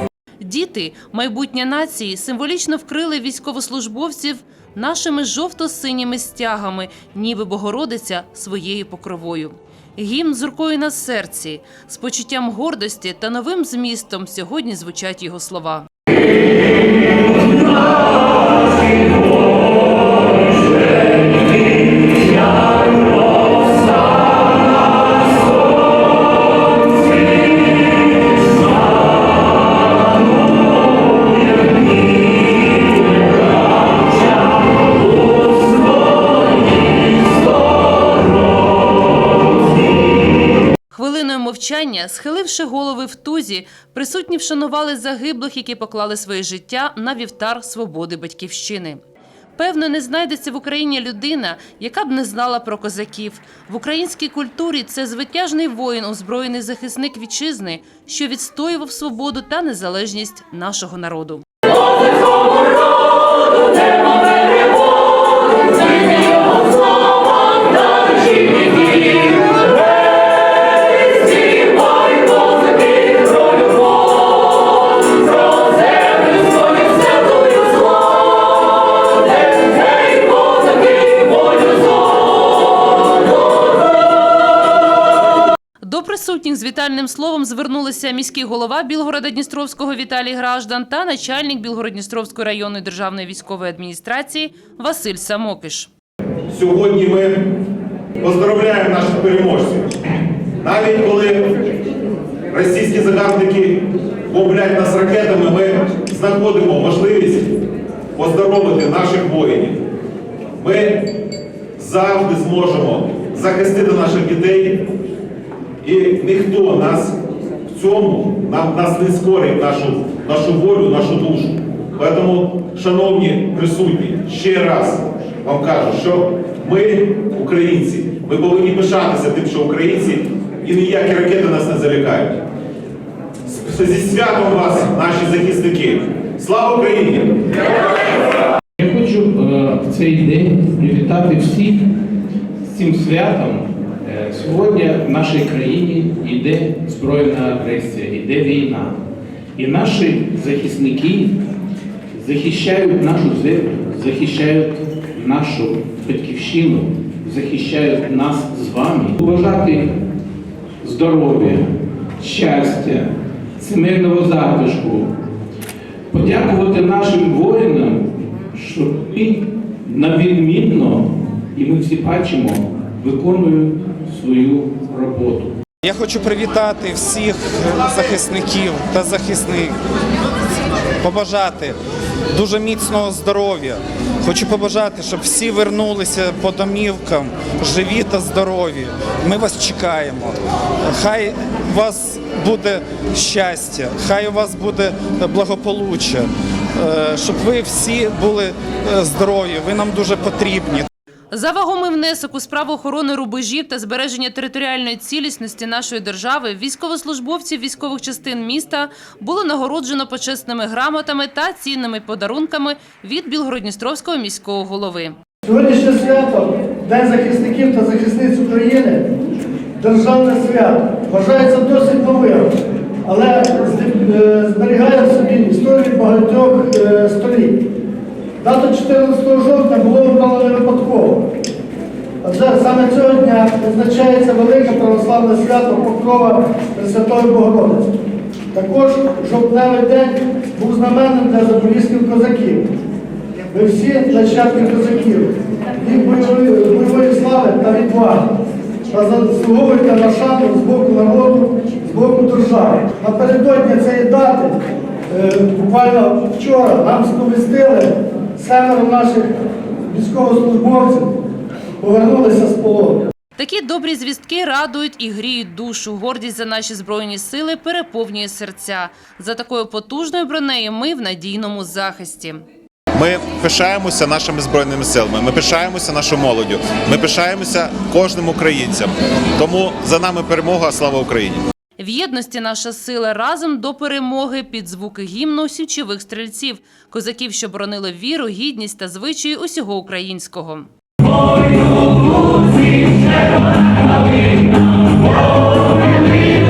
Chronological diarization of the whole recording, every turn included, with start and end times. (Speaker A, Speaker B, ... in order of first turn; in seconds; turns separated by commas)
Speaker A: 0.4-15.9, Speaker A: 40.9-49.0, Speaker A: 49.6-61.4, Speaker A: 85.8-95.9, Speaker B: 96.5-97.5, Speaker B: 98.2-99.9, Speaker B: 100.6-101.5, Speaker B: 102.5-107.6, Speaker B: 108.2-109.8, Speaker B: 110.6-111.1, Speaker B: 111.8-114.8, Speaker B: 115.8-117.2, Speaker B: 117.7-132.4, Speaker B: 133.5-137.5, Speaker C: 138.8-141.9, Speaker C: 142.6-148.9, Speaker C: 149.6-151.4, Speaker C: 152.1-159.9, Speaker C: 160.8-161.7, Speaker C: 162.2-165.1, Speaker C: 166.1-175.5, Speaker D: 175.8-179.8, Speaker B: 177.7-178.2, Speaker D: 181.0-181.8, Speaker D: 182.3-196.2, Speaker D: 196.8-200.9, Speaker A: 201.3-215.1, Speaker E: 215.4-219.1, Speaker E: 219.8-222.5, Speaker E: 223.0-227.6, Speaker E: 228.4-231.2, Speaker E: 232.2-237.9, Speaker E: 238.5-242.7, Speaker E: 243.5-248.3, Speaker E: 248.9-259.3, Speaker E: 259.9-261.1, Speaker E: 261.8-263.0, Speaker A: 263.4-272.4, Speaker B: 272.9-281.4, Speaker A: 281.8-290.7